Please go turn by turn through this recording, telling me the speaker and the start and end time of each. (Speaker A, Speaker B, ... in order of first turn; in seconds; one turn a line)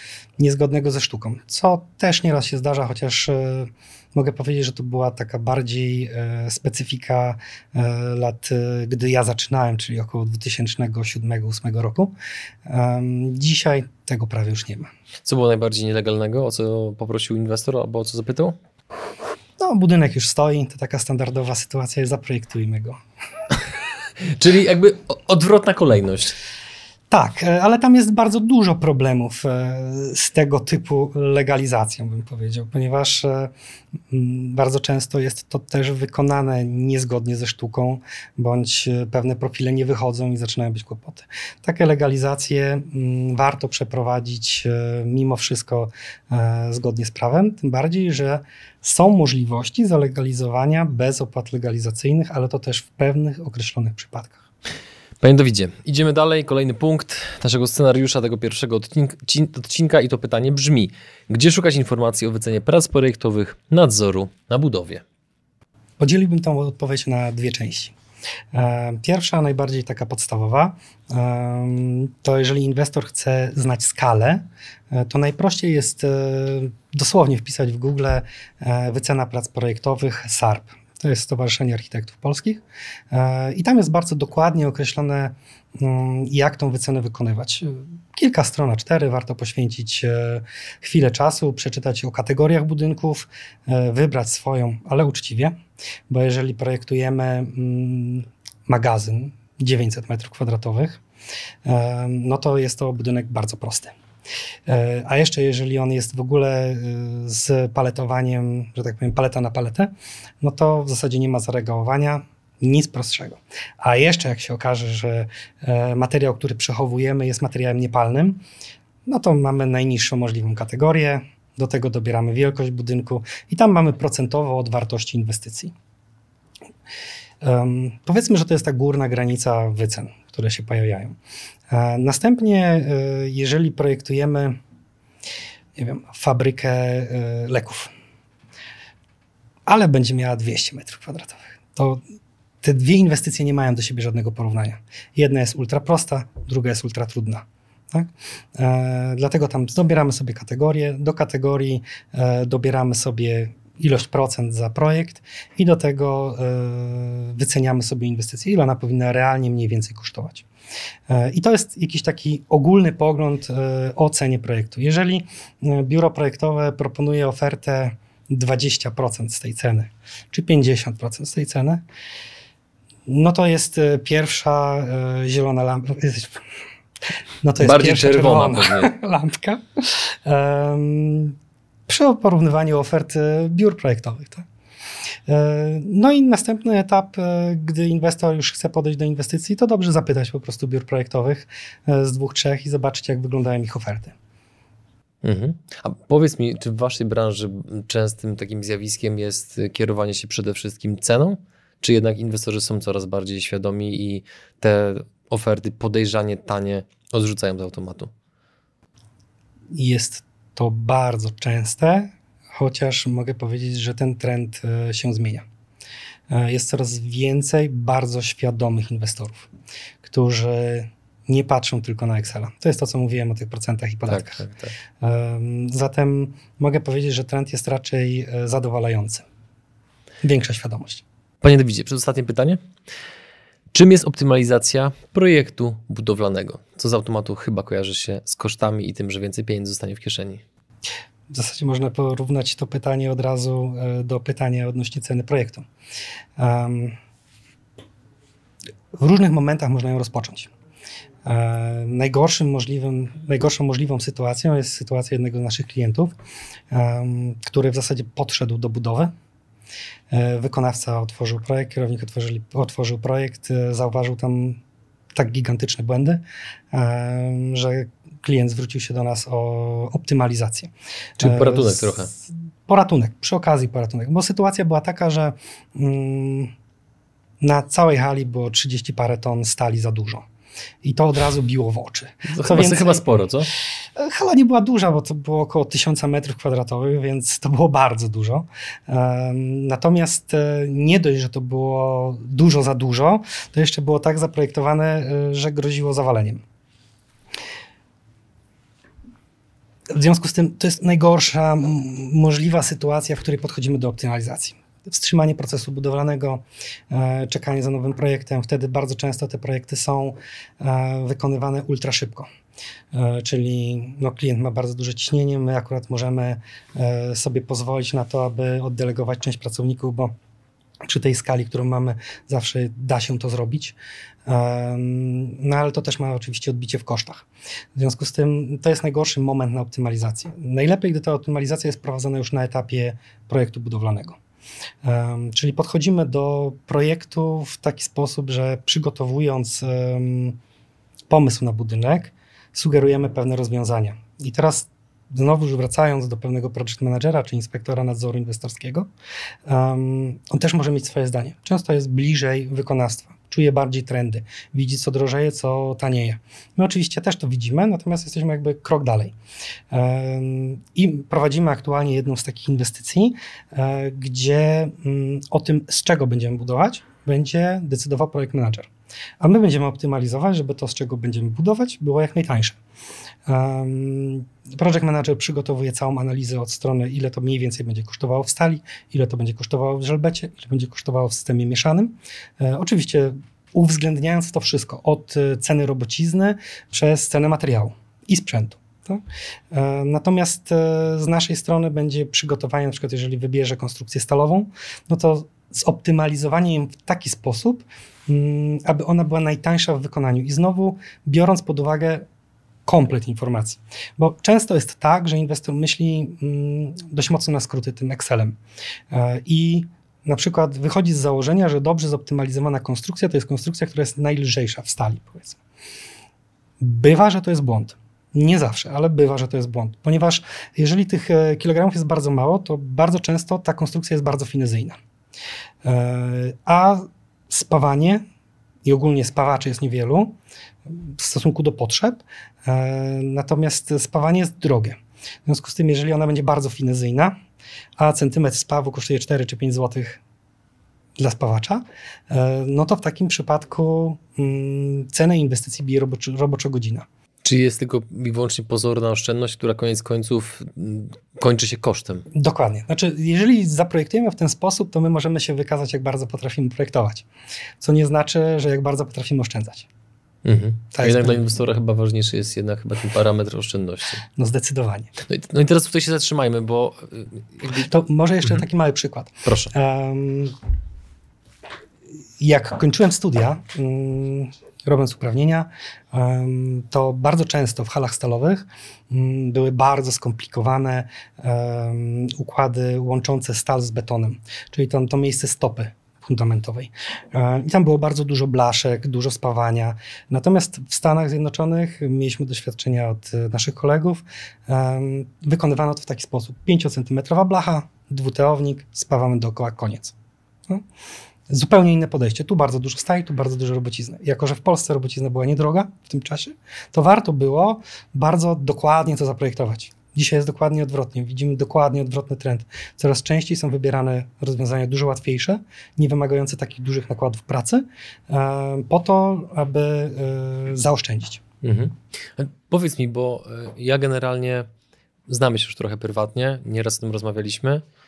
Speaker A: 0.4-12.1
Speaker A: 12.7-14.9
Speaker B: 15.2-18.6
Speaker A: 19.6-23.0
Speaker B: 24.2-26.4
Speaker A: 27.1-33.5
Speaker A: 34.1-54.4
Speaker B: 55.2-65.0
Speaker A: 66.0-67.9
Speaker A: 68.5-95.5
Speaker A: 96.1-101.0
Speaker A: 101.6-103.9
Speaker A: 104.7-118.4
Speaker A: 119.0-125.7
Speaker A: 127.4-131.2
Speaker A: 131.7-134.6
Speaker A: 135.8-137.9
Speaker A: 139.7-142.0
Speaker A: 142.6-160.4
Speaker A: 161.1-171.8
Speaker A: 173.1-176.4
Speaker A: 177.4-181.3
Speaker B: 177.6-178.9
Speaker A: 181.9-184.4
Speaker A: 185.3-194.1
Speaker B: 195.2-208.1
Speaker A: 209.7-215.4
Speaker A: 216.3-219.5
Speaker A: 220.0-224.5
Speaker B: 224.1-224.7
Speaker A: 225.0-229.2
Speaker A: 230.2-231.0
Speaker B: 231.4-232.6
Speaker B: 233.7-240.4
Speaker A: 241.3-245.6
Speaker A: 246.4-247.0
Speaker A: 248.9-250.5
Speaker A: 251.2-256.1
Speaker A: 256.7-259.1
Speaker A: 260.1-264.6
Speaker A: 265.1-276.5
Speaker B: 271.2-272.1
Speaker A: 277.4-280.2
Speaker A: 280.8-283.0
Speaker B: 282.3-283.5
Speaker A: 283.9-296.4
Speaker A: 299.9-312.3
Speaker A: 312.9-320.1
Speaker A: 320.8-323.7
Speaker A: 324.2-334.2
Speaker A: 334.8-340.4
Speaker A: 341.1-348.9
Speaker A: 349.4-359.1
Speaker A: 359.7-372.6
Speaker A: 373.2-402.0
Speaker A: 402.6-408.4
Speaker A: 408.9-415.4
Speaker A: 416.6-424.8
Speaker A: 425.6-428.0
Speaker A: 428.6-430.1
Speaker A: 430.7-437.1
Speaker A: 437.8-440.0
Speaker A: 441.0-446.9
Speaker B: 447.2-452.1
Speaker A: 452.1-457.1
Speaker A: 457.6-459.7
Speaker B: 460.2-464.0
Speaker A: 460.7-461.2
Speaker A: 464.1-464.9
Speaker B: 465.1-467.7
Speaker A: 467.5-470.3
Speaker B: 469.2-469.5
Speaker A: 472.2-499.9
Speaker A: 501.3-521.2
Speaker B: 521.4-524.5
Speaker B: 525.1-527.6